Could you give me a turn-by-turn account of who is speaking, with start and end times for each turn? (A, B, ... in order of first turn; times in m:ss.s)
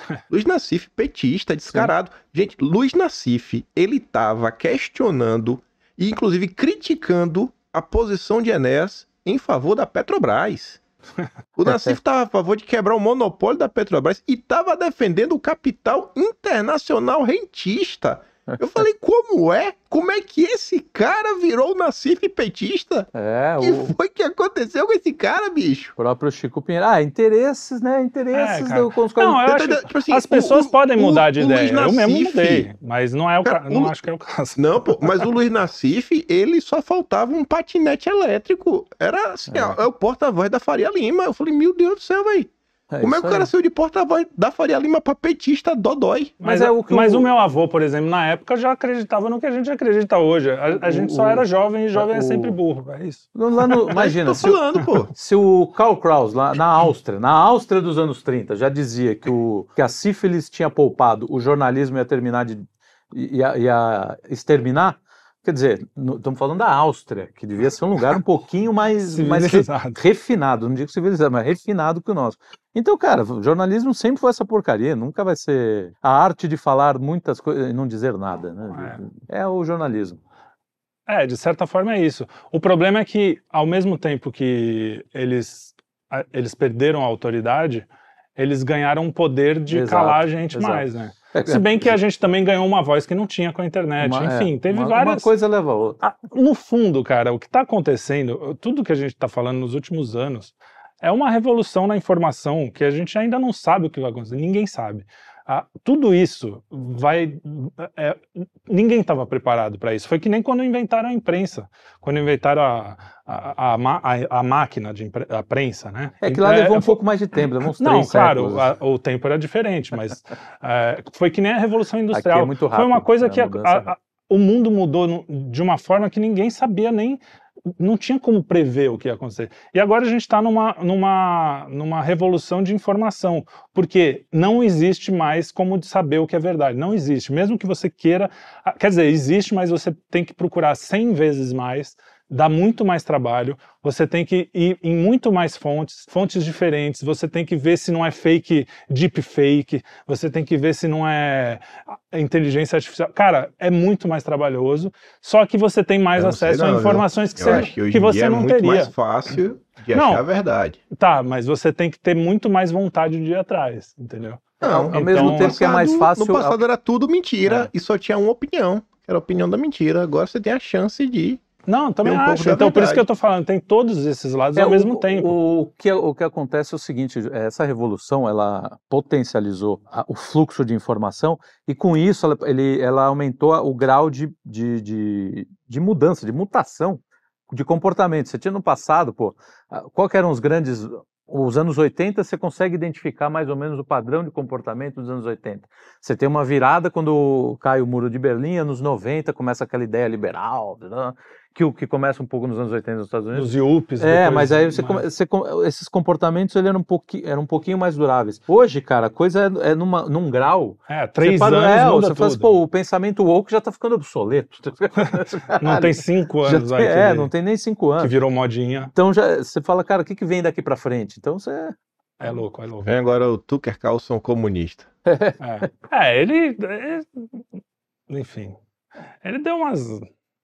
0:00.3-0:10.8 A
0:11.6-0:25.9 A
0:11.7-0:12.0 B
0:18.5-0:18.8 B
0:23.1-0:24.0 B
0:26.0-0:29.4 B
0:28.3-0:35.3 C
0:29.4-0:32.7 A
0:33.4-0:34.0 A
0:34.6-0:46.4 A
0:39.5-0:39.8 B
0:42.9-0:43.5 B
0:46.4-0:47.3 B
0:46.4-0:53.3 C
0:50.8-0:52.6 B
0:53.3-1:20.2 B
0:53.9-0:55.1 A
1:09.0-1:10.0 C
1:21.1-1:35.3 C
1:29.7-1:32.0 B
1:34.0-1:36.0 B
1:36.0-1:57.0 C
1:56.2-1:58.7 B
1:57.8-2:38.9 C
2:02.1-2:03.9 B
2:36.2-2:40.8 A
2:39.9-2:40.2 C
2:40.9-2:45.6 C
2:44.6-2:46.6 B
2:44.6-2:51.4 A
2:51.7-2:55.4 C
2:52.0-2:53.0 A
2:54.6-3:38.1 B
3:23.3-3:25.0 C
3:30.9-3:32.6 C
3:35.0-3:37.3 C
3:38.0-3:38.9 C
3:39.0-3:41.7 B
3:42.2-3:42.9 C
3:42.8-3:44.9 A
3:45.0-3:45.4 B
3:45.4-3:47.4 C
3:48.1-3:48.6 C
3:49.2-3:50.1 C